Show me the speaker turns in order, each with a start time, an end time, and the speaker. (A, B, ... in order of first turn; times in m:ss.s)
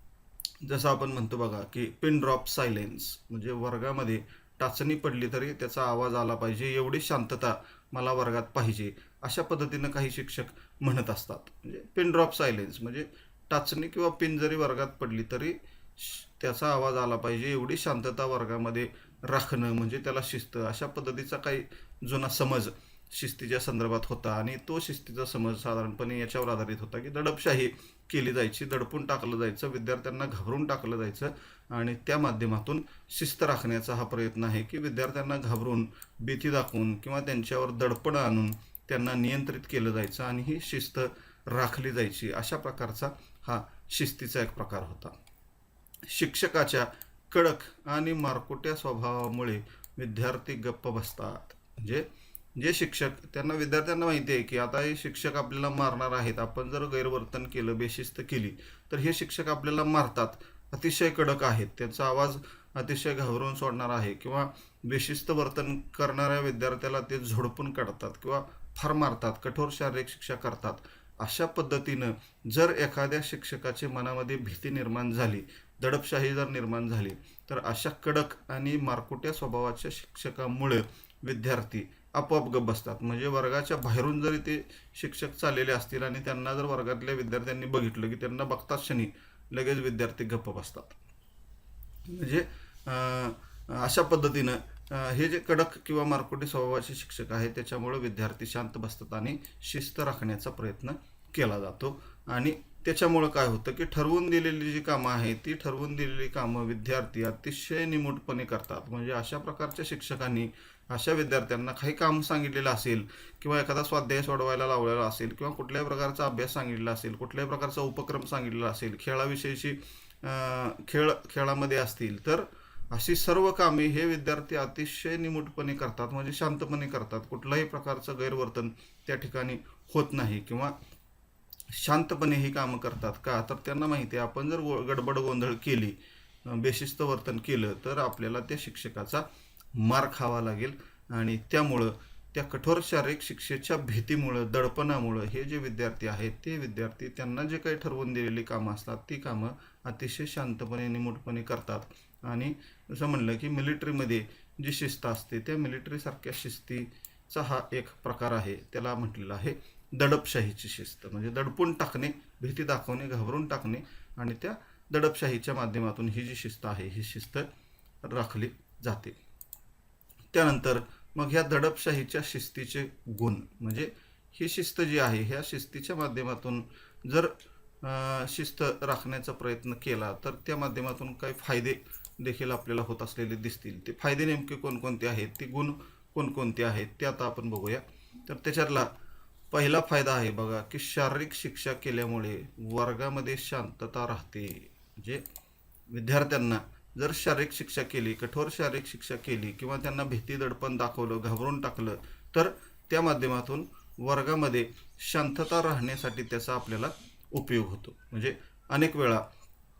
0:00.6-0:45.2 A
0:46.1-1:31.0 A
1:32.1-2:10.7 A
2:11.7-2:19.2 A
2:19.8-2:47.5 A
2:48.0-2:49.2 A
2:50.3-3:08.9 A
3:09.5-3:15.2 A
3:15.9-3:29.2 A